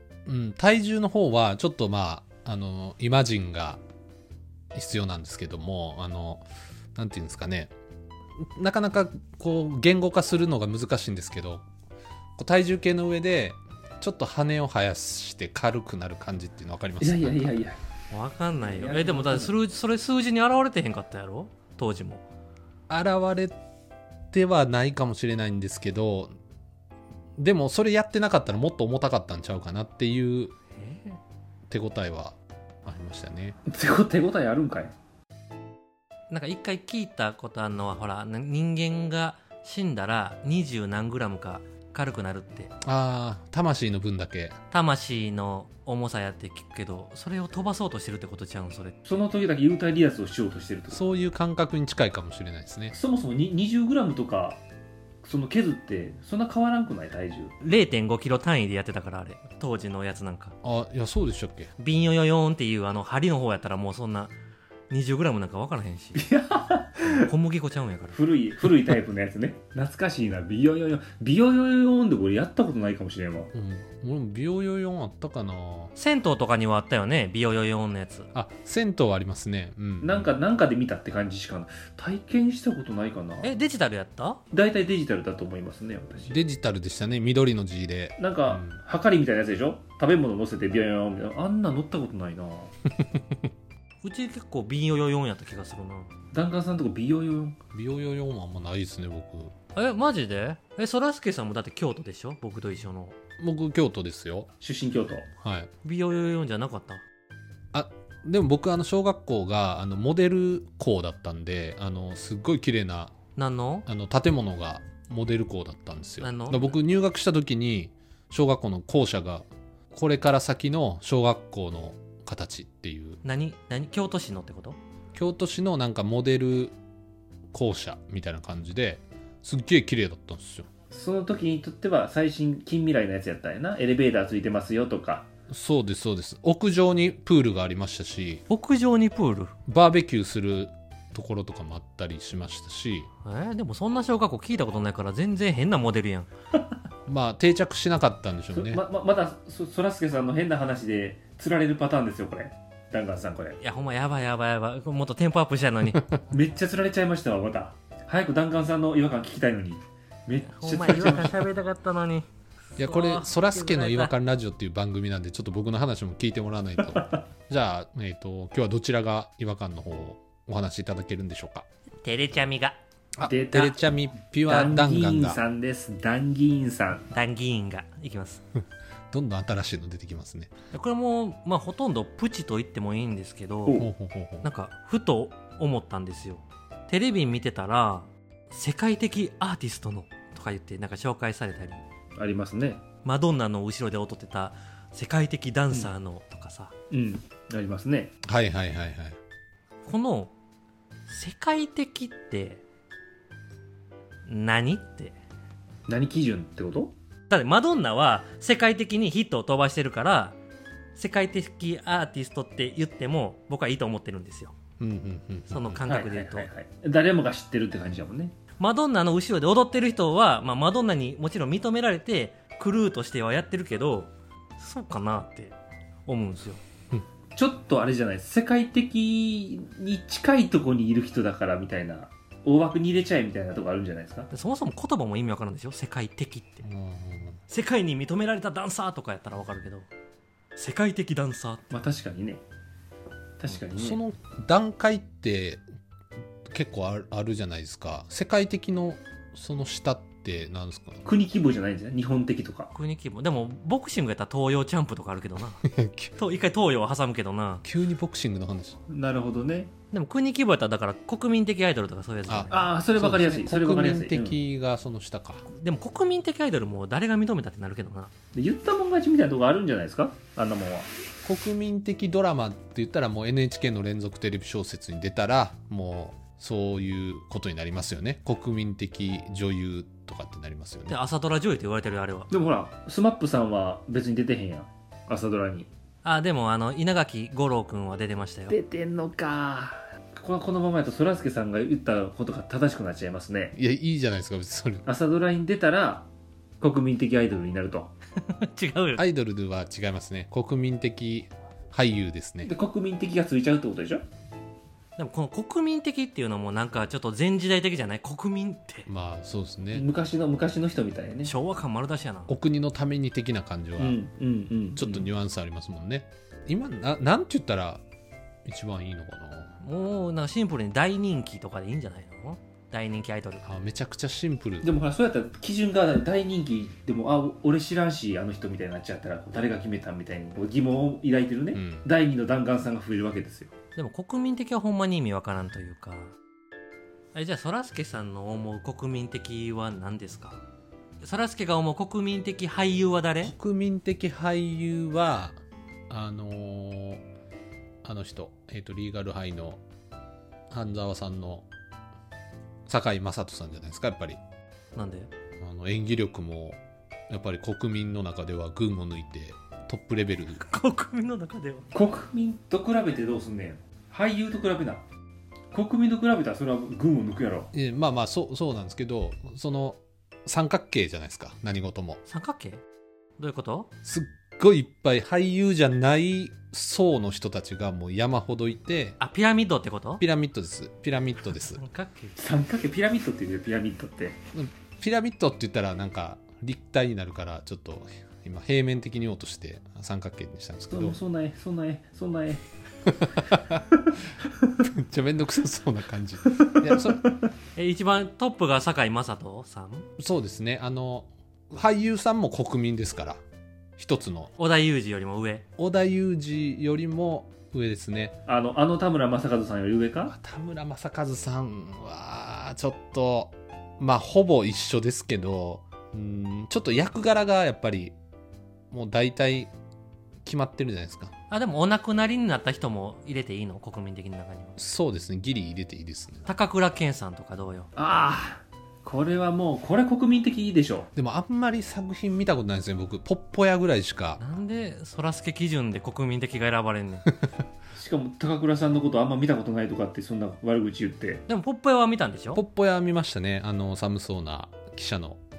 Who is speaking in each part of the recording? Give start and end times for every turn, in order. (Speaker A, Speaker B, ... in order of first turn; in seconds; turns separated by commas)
Speaker A: 0.2-3.8, Speaker A: 4.7-7.7, Speaker A: 8.5-11.7, Speaker A: 12.4-17.4, Speaker B: 17.0-17.8, Speaker C: 18.1-22.2, Speaker B: 18.6-19.5, Speaker A: 22.9-23.6, Speaker A: 24.3-26.3, Speaker A: 27.4-30.5, Speaker C: 30.7-31.2, Speaker A: 31.7-33.6, Speaker B: 33.6-34.9, Speaker C: 36.3-42.7, Speaker A: 42.8-44.6, Speaker C: 44.7-48.9, Speaker B: 49.0-51.0, Speaker A: 50.9-52.9, Speaker B: 52.9-54.6, Speaker B: 55.2-57.5, Speaker C: 57.6-60.5, Speaker A: 60.6-61.7, Speaker C: 61.8-64.3, Speaker C: 64.9-66.2, Speaker B: 66.2-67.3, Speaker C: 67.0-68.2, Speaker B: 68.1-73.5, Speaker A: 73.5-75.9, Speaker C: 75.9-78.3, Speaker A: 78.3-80.3, Speaker B: 80.0-83.5, Speaker C: 83.4-84.4, Speaker B: 84.5-86.4, Speaker A: 86.3-88.8, Speaker B: 88.2-92.7, Speaker C: 94.0-96.1, Speaker B: 96.3-97.6, Speaker A: 97.7-99.5, Speaker C: 99.7-103.2, Speaker A: 103.4-104.5, Speaker B: 104.6-105.3, Speaker A: 105.4-105.7, Speaker C: 105.8-107.0, Speaker A: 107.7-113.1, Speaker C: 113.3-113.9, Speaker A: 113.9-123.2, Speaker C: 116.2-116.8, Speaker C: 123.2-124.8, Speaker A: 125.1-126.7, Speaker A: 127.5-130.7, Speaker B: 130.9-135.2, Speaker A: 135.5-138.4, Speaker C: 138.5-139.5, Speaker A: 139.7-143.1, Speaker C: 143.2-146.3, Speaker A: 147.1-148.8, Speaker B: 148.5-153.6, Speaker C: 153.6-156.0, Speaker B: 156.3-161.4, Speaker C: 160.5-164.1, Speaker A: 162.8-171.7, Speaker B: 166.8-167.2, Speaker C: 172.0-172.8, Speaker A: 173.2-175.4, Speaker B: 173.2-173.8, Speaker B: 174.4-177.1, Speaker C: 177.1-178.4, Speaker A: 179.1-180.5, Speaker C: 180.7-183.8, Speaker A: 183.8-184.5, Speaker C: 184.4-191.8, Speaker B: 192.2-192.8, Speaker C: 193.0-196.7, Speaker B: 196.9-198.1, Speaker A: 198.2-199.2, Speaker C: 199.8-200.3, Speaker C: 201.1-202.6, Speaker C: 204.3-205.1, Speaker B: 205.9-206.9, Speaker C: 207.3-210.4, Speaker C: 210.9-214.5, Speaker A: 214.8-215.8, Speaker C: 215.5-216.5, Speaker B: 215.9-218.3, Speaker C: 218.6-225.5, Speaker C: 226.1-226.6, Speaker B: 227.3-234.3, Speaker C: 234.3-236.7, Speaker A: 236.6-237.4, Speaker C: 237.5-239.9, Speaker C: 240.6-241.6, Speaker B: 241.7-242.4, Speaker B: 243.4-244.0, Speaker A: 243.7-245.6, Speaker A: 246.4-251.1, Speaker B: 251.1-252.7, Speaker C: 252.7-255.6, Speaker A: 255.6-256.1, Speaker C: 256.1-257.6, Speaker A: 257.6-258.8, Speaker B: 258.9-259.7, Speaker C: 259.9-262.6, Speaker A: 262.3-265.4, Speaker B: 262.5-264.4, Speaker C: 265.5-268.1, Speaker B: 268.3-270.9, Speaker A: 271.2-280.9, Speaker C: 280.9-282.3, Speaker B: 282.3-285.7, Speaker C: 286.0-288.6, Speaker B: 288.5-293.6, Speaker A: 293.6-294.8, Speaker B: 294.8-296.1, Speaker B: 296.6-297.9, Speaker C: 298.2-299.0, Speaker A: 298.9-302.5, Speaker B: 302.4-304.0, Speaker C: 305.0-308.9, Speaker A: 308.9-309.9, Speaker B: 309.7-311.3, Speaker C: 311.2-312.3, Speaker A: 312.3-314.0, Speaker B: 313.8-315.1, Speaker A: 314.8-317.8, Speaker A: 318.4-319.5, Speaker C: 319.6-323.4, Speaker A: 323.4-324.7, Speaker B: 324.6-333.5, Speaker A: 331.5-331.9, Speaker C: 333.7-336.1, Speaker C: 337.1-340.4, Speaker C: 341.0-343.3, Speaker A: 343.2-347.0, Speaker A: 347.8-349.6, Speaker A: 350.5-351.5, Speaker A: 352.7-354.2, Speaker C: 354.7-355.1, Speaker A: 355.4-360.4, Speaker C: 360.3-361.7, Speaker B: 361.7-364.8, Speaker B: 365.5-367.5, Speaker A: 367.5-372.0, Speaker C: 372.1-372.6, Speaker C: 373.2-373.7, Speaker A: 373.8-379.0, Speaker C: 379.0-380.0, Speaker A: 380.0-381.6, Speaker C: 381.3-382.1, Speaker B: 382.2-384.2, Speaker A: 384.3-391.0, Speaker B: 390.7-392.4, Speaker A: 392.8-393.6, Speaker A: 394.6-397.0, Speaker B: 396.3-397.1, Speaker C: 397.6-399.9, Speaker A: 400.0-403.2, Speaker A: 403.8-404.3, Speaker C: 404.4-405.4, Speaker A: 405.6-408.1, Speaker B: 408.3-410.1, Speaker A: 410.1-417.9, Speaker A: 418.7-419.5, Speaker A: 420.2-421.1, Speaker C: 421.3-424.6, Speaker A: 424.6-426.3, Speaker C: 426.2-427.7, Speaker B: 427.8-430.9, Speaker A: 430.9-434.2, Speaker C: 434.2-437.1, Speaker B: 437.7-441.2, Speaker C: 441.3-442.4, Speaker A: 442.3-445.2